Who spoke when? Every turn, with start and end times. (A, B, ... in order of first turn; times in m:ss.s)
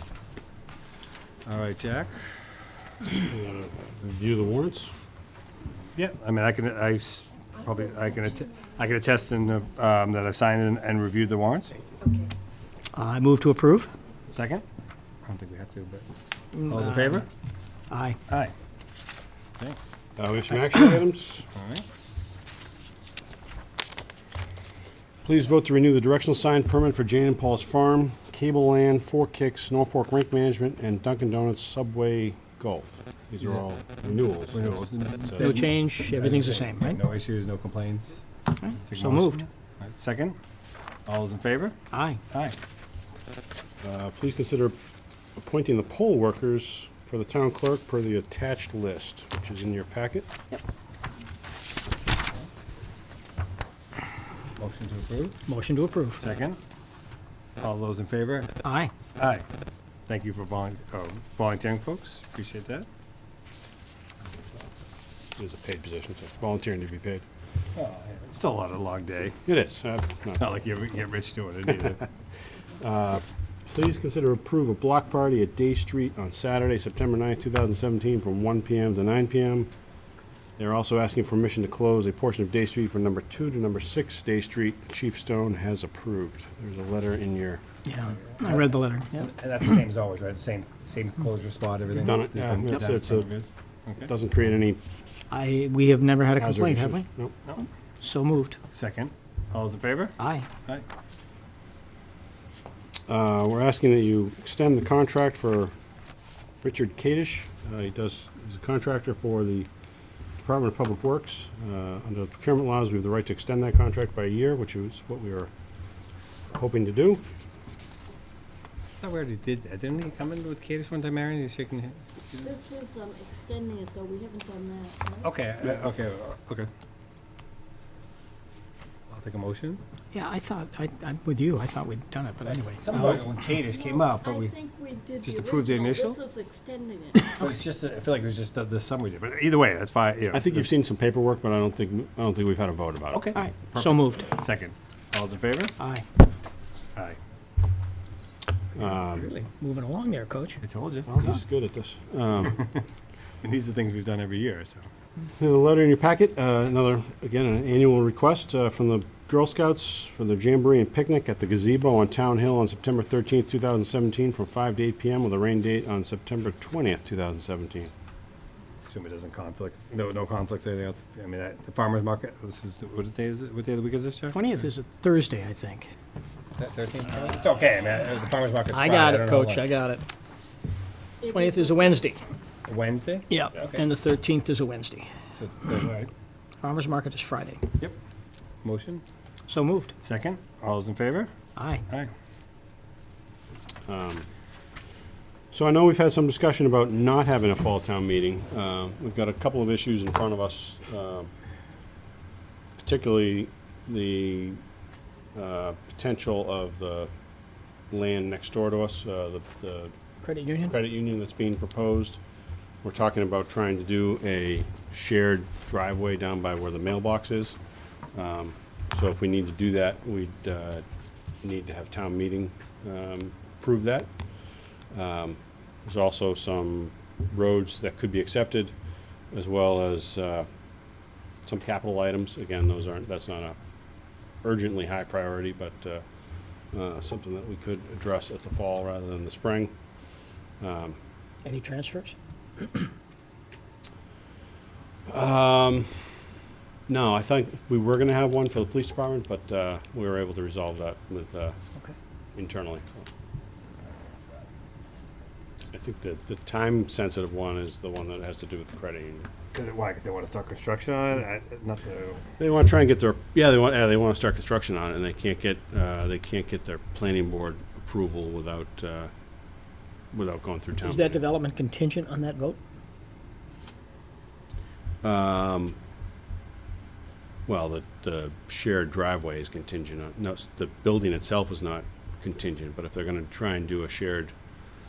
0:01.4-0:02.3 A
0:03.1-0:04.9 B
0:06.0-0:11.8 A
0:12.9-0:13.9 C
0:14.3-0:14.6 A
0:15.2-0:16.0 A
0:16.5-0:17.2 C
0:16.6-0:17.3 A
0:17.9-0:18.2 C
0:18.3-0:18.5 A
0:20.2-0:21.5 B
0:21.5-0:21.8 A
0:25.2-0:35.7 B
0:34.5-0:40.4 A
0:35.4-0:37.0 C
0:38.6-0:39.4 C
0:41.0-0:41.8 A
0:41.9-0:42.2 C
0:42.3-0:42.6 A
0:43.8-0:44.7 B
0:45.4-0:50.3 B
0:54.6-0:55.4 A
0:55.4-0:56.2 C
0:56.2-0:56.6 A
0:57.6-0:58.5 A
0:58.6-0:58.9 C
0:59.2-0:59.4 A
1:00.1-1:02.9 A
1:05.4-1:07.2 B
1:07.7-1:09.4 A
1:09.4-1:10.5 B
1:10.4-1:12.0 A
1:11.7-1:12.0 B
1:12.8-1:19.7 B
1:20.6-1:27.6 B
1:27.8-1:29.3 C
1:28.4-1:34.1 A
1:32.0-1:33.4 B
1:34.0-1:34.8 B
1:35.3-1:37.0 C
1:36.4-1:37.3 B
1:38.0-1:38.6 C
1:38.7-1:40.8 A
1:40.2-1:40.5 C
1:43.1-1:45.7 B
1:46.6-1:49.7 B
1:50.4-1:55.5 B
1:56.5-1:57.2 B
1:59.0-2:02.6 A
2:02.4-2:05.3 D
2:05.2-2:06.7 A
2:09.1-2:09.8 A
2:10.1-2:13.4 C
2:12.4-2:14.5 A
2:13.6-2:17.4 D
2:15.2-2:16.2 A
2:17.3-2:20.7 A
2:20.3-2:24.1 B
2:23.1-2:23.4 A
2:23.3-2:24.3 C
2:24.2-2:25.7 A
2:25.8-2:26.0 C
2:28.8-2:29.3 B
2:28.8-2:29.5 A
2:29.6-2:30.6 C
2:30.6-2:31.2 A
2:31.1-2:32.6 B
2:33.4-2:34.8 A
2:35.4-2:47.9 B
2:48.8-2:54.4 A
2:54.3-2:55.9 C
2:56.5-2:59.6 A
2:58.7-3:00.0 C
3:01.2-3:02.1 D
3:01.3-3:02.2 C
3:02.6-3:03.8 A
3:03.3-3:05.1 C
3:05.3-3:06.1 A
3:06.6-3:07.6 C
3:08.6-3:09.0 A
3:09.5-3:09.9 C
3:10.0-3:11.3 A
3:11.6-3:11.8 C
3:13.8-3:14.2 B
3:15.5-3:21.3 B
3:22.8-3:24.6 B
3:25.3-3:27.1 B
3:27.9-3:29.9 B
3:30.2-3:30.8 C
3:30.6-3:32.2 B
3:32.8-3:37.6 B
3:38.1-3:40.8 B
3:41.4-3:44.1 B
3:44.9-3:48.7 B
3:49.3-3:50.5 B
3:51.4-3:53.6 B
3:54.4-3:56.0 B
3:56.7-3:59.7 B
4:00.6-4:01.0 B
4:01.4-4:02.8 C
4:05.1-4:06.3 B
4:06.9-4:11.5 B
4:12.3-4:13.0 B
4:15.7-4:19.3 B
4:19.5-4:22.2 A
4:22.4-4:29.1 B
4:30.1-4:31.2 B
4:30.8-4:32.6 C
4:35.0-4:35.8 B
4:37.5-4:44.3 B